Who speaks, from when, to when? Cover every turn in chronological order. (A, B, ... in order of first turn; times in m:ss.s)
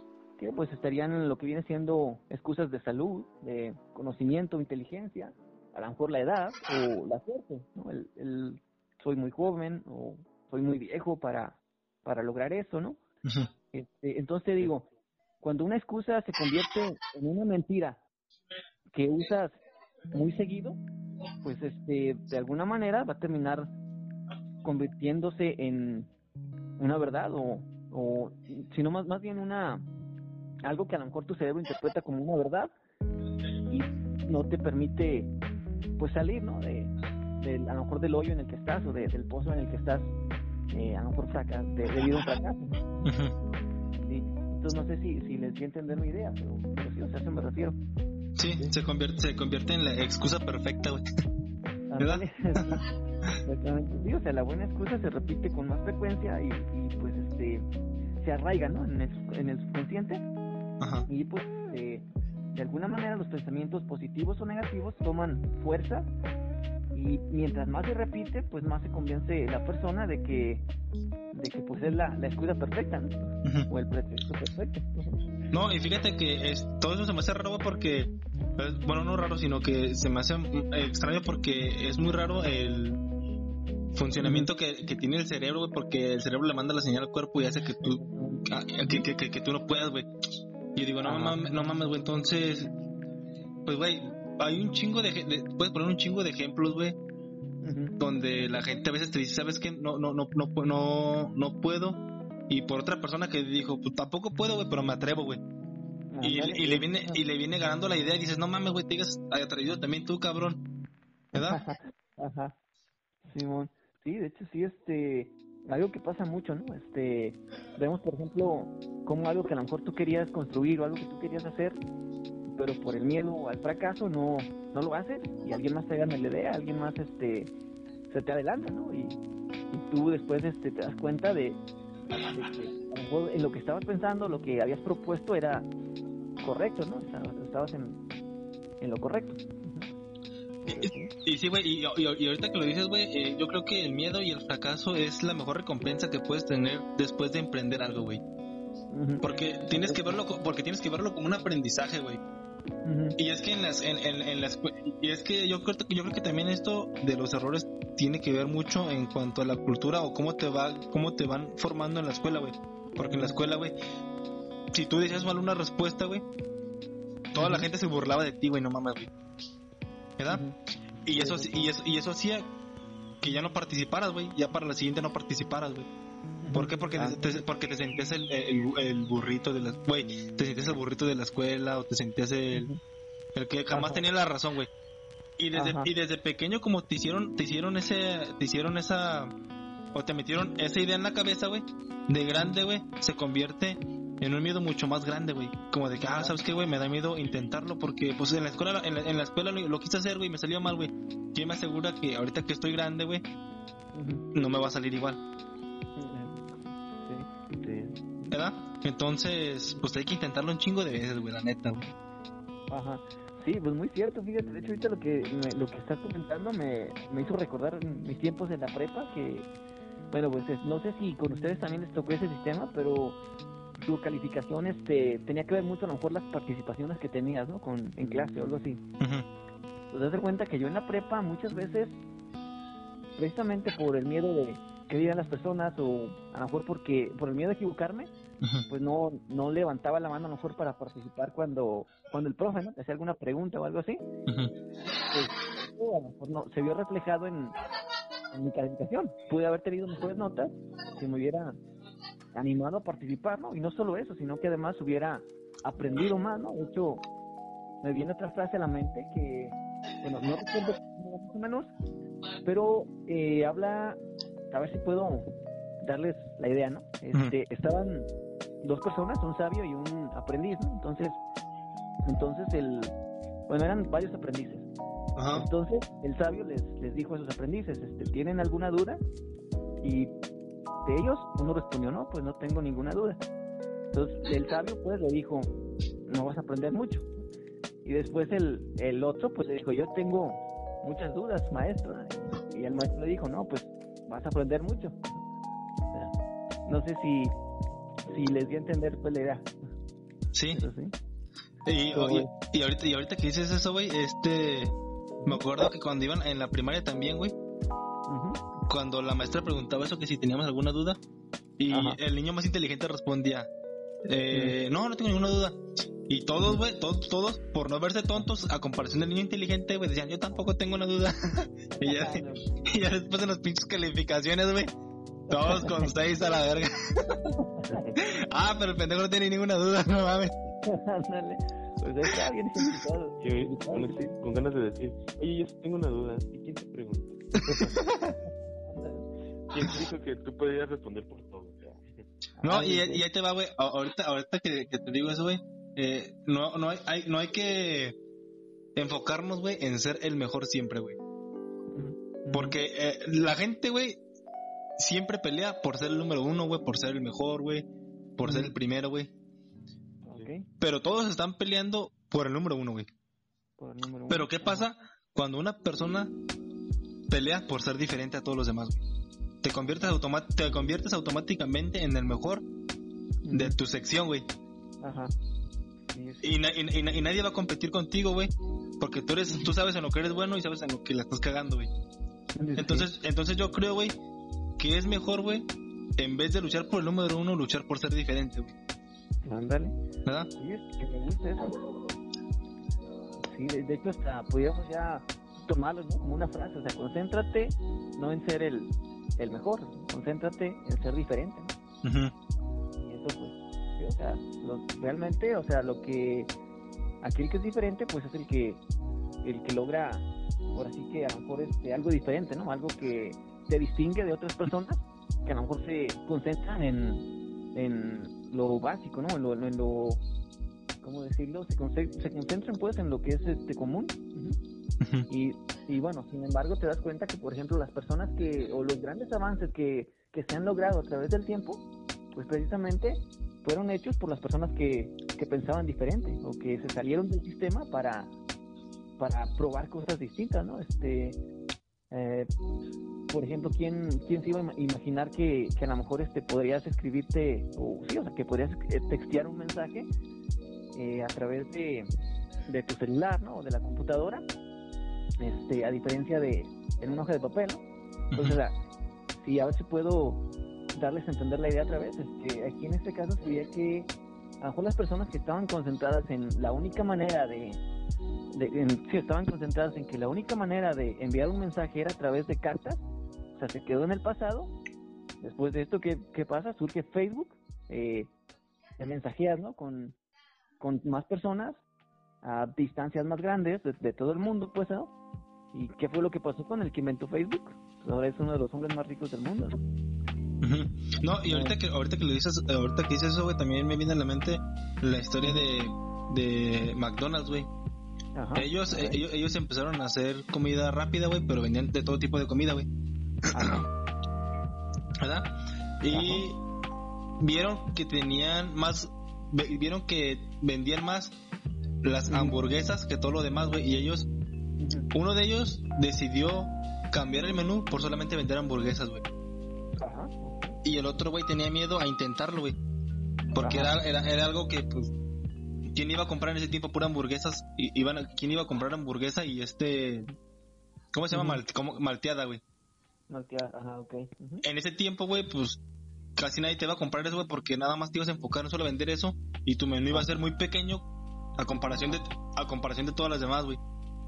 0:00.4-0:13.0 A
0:13.2-0:13.5 B
0:13.7-0:14.8 A
0:15.4-0:18.0 A
0:18.9-0:19.6 A
0:20.1-0:20.8 A
0:21.4-0:23.7 A
0:24.6-0:26.1 A
0:26.8-0:29.8 A
0:30.6-0:32.7 A
0:33.7-0:35.3 A
0:36.0-0:40.1 A
0:40.7-0:42.8 A
0:43.0-0:43.3 B
0:44.0-0:47.8 A
0:48.4-0:51.0 B
0:51.9-0:52.8 A
0:52.0-0:52.6 B
0:53.4-0:57.6 A
0:58.2-1:00.2 A
1:00.8-1:01.1 B
1:01.1-1:06.1 A
1:06.9-1:10.6 A
1:11.3-1:15.2 A
1:15.5-1:23.0 B
1:23.9-1:30.1 B
1:24.2-1:24.5 A
1:27.8-1:29.0 A
1:30.8-1:32.7 B
1:31.0-1:31.4 A
1:33.6-1:37.0 B
1:37.6-1:38.0 A
1:38.0-1:45.4 B
1:46.1-1:47.2 A
1:46.2-1:50.6 B
1:51.3-1:51.6 B
1:51.3-1:52.5 A
1:53.3-2:01.8 A
2:02.5-2:07.5 A
2:08.1-2:09.2 A
2:09.7-2:11.6 A
2:12.2-2:15.7 A
2:16.4-2:18.0 A
2:18.8-2:19.9 A
2:20.6-2:21.1 A
2:20.7-2:28.2 B
2:28.9-2:30.2 A
2:29.2-2:32.2 B
2:32.8-2:33.2 A
2:33.2-2:43.8 B
2:43.0-2:43.4 A
2:44.7-2:46.2 B
2:47.3-2:49.1 B
2:47.4-2:47.7 A
2:50.2-2:50.4 B
2:50.3-2:50.5 A
2:51.0-2:52.5 B
2:51.1-2:51.7 A
2:53.2-2:55.9 B
2:56.4-2:57.3 A
2:56.5-3:02.7 B
3:02.5-3:02.8 A
3:03.3-3:04.7 B
3:03.7-3:04.0 A
3:05.4-3:09.3 B
3:05.5-3:05.9 A
3:09.9-3:23.2 B
3:16.1-3:16.4 A
3:23.9-3:24.2 A
3:24.3-3:25.2 B
3:26.0-3:27.3 A
3:27.6-3:27.9 C
3:28.3-3:31.9 B
3:32.7-3:39.5 A
3:40.1-3:43.2 A
3:43.8-3:48.8 A
3:49.0-3:49.2 B
3:49.9-3:52.0 A
3:53.2-3:58.1 A
3:58.7-4:04.0 A
4:04.3-4:04.5 B
4:05.1-4:07.6 A
4:08.3-4:11.6 A
4:12.3-4:17.0 A
4:17.8-4:21.7 A
4:22.4-4:24.0 A
4:24.5-4:25.3 A
4:25.8-4:28.1 A
4:28.6-4:31.2 A
4:32.0-4:32.9 A
4:33.5-4:34.6 A
4:35.2-4:35.5 B
4:35.3-4:39.0 A
4:39.8-4:40.1 A
4:40.8-4:43.2 A
4:43.9-4:45.5 A
4:46.1-4:47.0 A
4:47.8-4:55.0 A
4:56.6-4:57.4 A
4:58.1-4:59.5 A
5:00.3-5:00.6 B
5:00.5-5:00.9 A
5:01.6-5:04.7 B
5:01.9-5:02.3 A
5:05.2-5:07.3 B
5:08.1-5:08.4 A
5:08.7-5:11.0 B
5:11.6-5:13.5 B
5:11.7-5:12.0 A
5:14.0-5:24.7 B
5:14.3-5:14.6 A
5:21.8-5:22.7 A
5:25.3-5:27.2 B
5:25.3-5:25.9 A
5:27.6-5:27.8 A
5:28.0-5:30.3 B
5:30.6-5:34.2 A
5:33.2-5:37.2 C
5:37.5-5:38.2 B
5:38.6-5:39.1 A
5:39.5-5:42.0 C
5:42.4-5:43.0 A
5:42.4-5:48.0 B
5:48.8-5:51.0 B
5:51.7-5:52.6 A
5:52.3-5:54.0 B
5:54.8-5:57.6 B
5:58.2-5:59.1 B
5:58.2-5:58.5 A
6:00.0-6:00.5 A
6:00.6-6:02.9 B
6:03.6-6:04.7 A
6:04.1-6:06.1 B
6:07.1-6:08.8 B
6:09.4-6:12.4 B
6:13.2-6:13.6 A
6:13.3-6:14.2 B
6:14.8-6:15.1 A
6:15.9-6:16.3 A
6:16.2-6:21.7 B
6:22.3-6:22.9 A
6:22.6-6:24.0 B
6:24.6-6:28.5 B
6:29.2-6:29.7 A
6:30.4-6:31.5 A
6:33.2-6:41.5 A
6:41.8-6:42.1 B
6:42.8-6:46.3 A
6:47.0-6:48.6 A
6:49.2-7:00.0 A
7:00.8-7:04.4 A
7:04.8-7:05.1 B
7:05.1-7:18.1 A
7:19.0-7:21.2 A
7:21.9-7:22.3 A
7:23.1-7:29.9 A
7:30.7-7:31.9 A
7:32.5-7:34.2 A
7:35.2-7:37.6 A
7:38.1-7:38.4 B
7:38.2-7:38.6 A
7:39.2-7:47.6 A
7:48.3-7:52.8 A
7:53.3-7:54.5 A
7:55.2-7:58.1 A
7:58.8-8:00.0 A
8:00.6-8:01.6 A
8:02.2-8:04.9 A
8:05.5-8:09.6 A
8:10.4-8:17.5 B
8:11.2-8:11.6 A
8:18.1-8:19.0 A
8:18.3-8:22.7 B
8:23.3-8:23.6 B
8:23.3-8:23.7 A
8:25.0-8:26.4 B
8:25.9-8:26.2 A
8:27.2-8:31.2 B
8:31.8-8:34.0 B
8:32.1-8:32.3 A
8:34.6-8:34.9 A
8:34.9-8:39.0 B
8:39.8-8:40.6 A
8:40.6-8:42.6 B
8:43.3-8:44.9 B
8:43.4-8:43.7 A
8:45.7-8:50.1 B
8:50.9-8:52.4 B
8:51.1-8:51.4 A
8:53.1-8:54.4 A
8:54.4-8:55.6 B
8:56.2-9:00.8 B
9:01.4-9:03.6 B